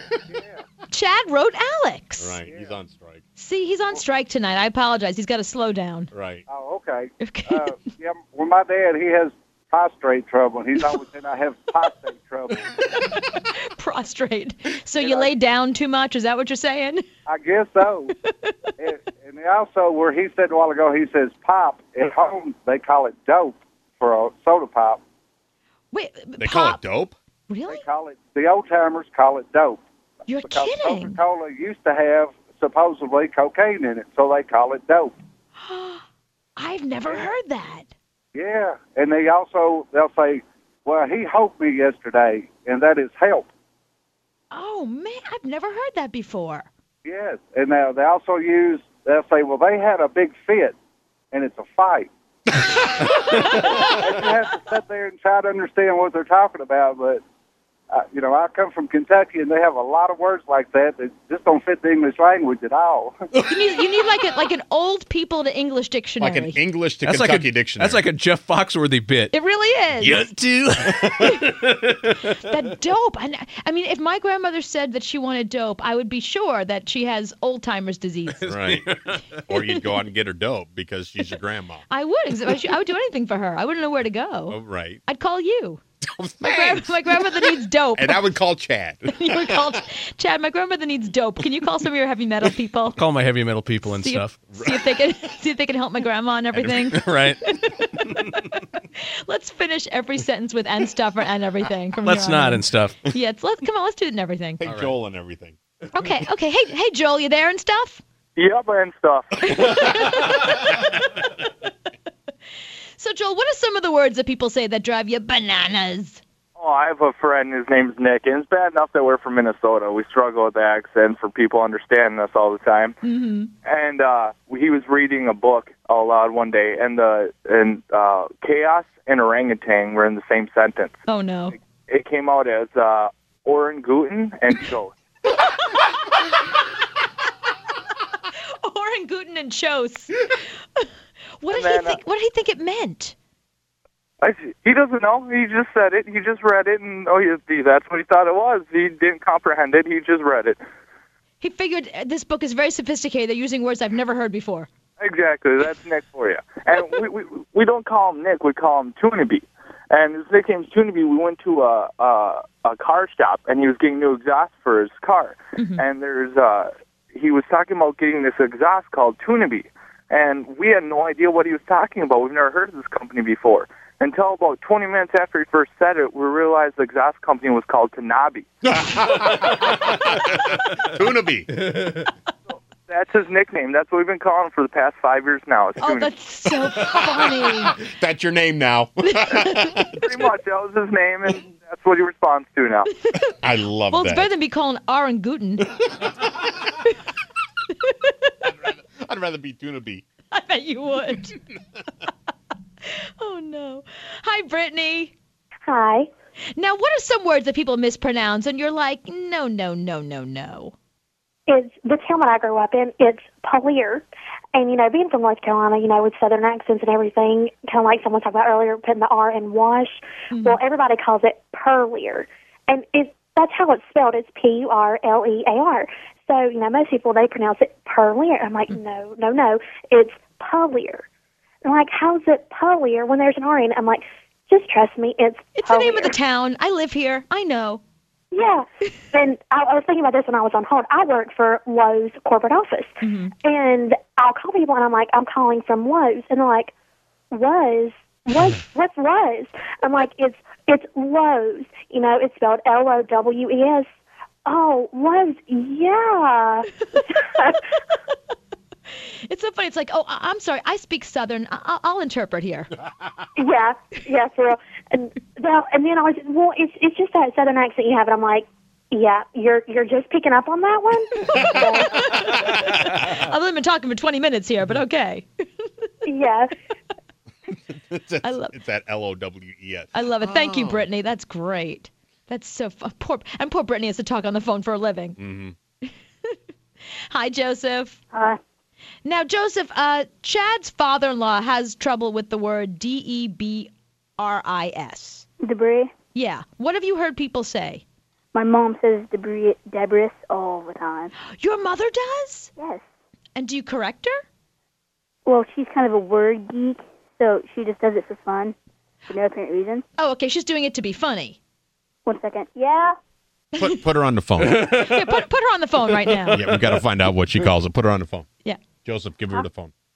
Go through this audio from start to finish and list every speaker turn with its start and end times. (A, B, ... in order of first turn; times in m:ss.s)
0:00.3-0:00.6 A
0:00.9-0:02.4 B
0:02.2-0:03.2 C
0:02.5-0:02.7 A
0:03.4-0:06.1 B
0:06.1-0:06.4 C
0:06.5-0:12.7 A
0:07.2-0:07.9 B
0:13.1-0:17.0 B
0:15.0-0:15.3 A
0:17.3-0:18.1 A
0:18.2-0:18.5 B
0:18.8-0:25.0 A
0:25.9-0:26.8 B
0:26.4-0:27.2 C
0:27.5-0:27.8 B
0:27.7-0:29.8 A
0:30.3-0:31.2 B
0:30.4-0:35.2 A
0:35.6-0:36.0 B
0:36.6-0:37.9 B
0:38.4-0:43.5 A
0:44.5-0:46.7 B
0:47.0-0:50.8 A
0:51.3-0:52.1 A
0:53.8-0:57.2 A
0:57.9-1:03.2 A
1:03.4-1:06.6 B
1:06.2-1:08.0 C
1:07.0-1:09.3 D
1:09.3-1:10.3 B
1:10.0-1:11.0 D
1:11.2-1:11.6 B
1:12.3-1:18.5 B
1:18.4-1:19.0 D
1:18.4-1:19.0 C
1:19.5-1:21.8 C
1:19.5-1:19.8 B
1:21.9-1:25.8 B
1:24.5-1:25.0 C
1:26.0-1:29.8 C
1:26.4-1:28.2 B
1:29.1-1:33.0 B
1:33.0-1:34.5 D
1:33.9-1:44.6 B
1:34.6-1:34.9 C
1:36.5-1:37.0 C
1:37.0-1:37.4 D
1:42.0-1:43.0 D
1:44.6-1:45.6 C
1:44.6-1:44.9 D
1:45.9-1:48.0 B
1:48.4-1:49.4 E
1:49.4-1:51.2 B
1:53.0-1:56.2 B
1:56.6-2:03.0 E
2:03.0-2:03.5 B
2:03.6-2:11.0 E
2:11.1-2:11.6 B
2:11.9-2:15.0 E
2:18.6-2:20.2 B
2:21.4-2:23.2 B
2:21.5-2:22.0 E
2:24.2-2:30.6 E
2:31.4-2:34.7 B
2:35.0-2:58.5 E
2:45.6-2:45.8 B
2:58.7-3:01.5 C
3:01.6-3:02.0 D
3:02.9-3:06.1 E
3:05.8-3:07.8 B
3:07.0-3:09.9 C
3:09.1-3:10.3 B
3:10.0-3:12.9 E
3:13.0-3:13.3 B
3:13.4-3:14.3 C
3:13.9-3:15.7 B
3:17.8-3:18.5 B
3:18.6-3:20.0 C
3:20.3-3:21.4 B
3:22.9-3:25.1 B
3:25.7-3:26.1 F
3:26.6-3:30.8 B
3:31.5-3:51.0 F
3:40.3-3:40.6 B
3:51.6-3:56.2 F
3:55.5-3:57.8 B
3:58.3-4:06.7 F
4:03.0-4:03.3 B
4:07.3-4:13.9 F
4:14.5-4:17.6 F
4:19.3-4:22.7 B
4:23.4-4:31.9 F
4:31.3-4:35.3 B
4:36.0-4:36.5 F
4:37.9-4:40.8 C
4:38.2-4:38.5 B
4:39.9-4:45.2 B
4:45.2-4:45.5 C
4:45.9-4:46.3 B
4:47.1-4:48.0 B
4:48.1-4:48.4 G
4:49.0-4:55.3 B
4:55.4-4:55.9 G
4:56.2-4:57.8 B
4:58.3-5:01.1 G
5:01.2-5:02.5 B
5:02.6-5:02.8 G
5:03.4-5:04.2 B
5:05.2-5:08.6 G
5:09.1-5:09.8 G
5:10.0-5:11.4 B
5:12.0-5:13.0 G
5:13.6-5:13.8 B
5:13.6-5:14.7 C
5:14.4-5:15.0 D
5:14.7-5:16.5 B
5:16.3-5:18.3 C
5:18.8-5:19.7 C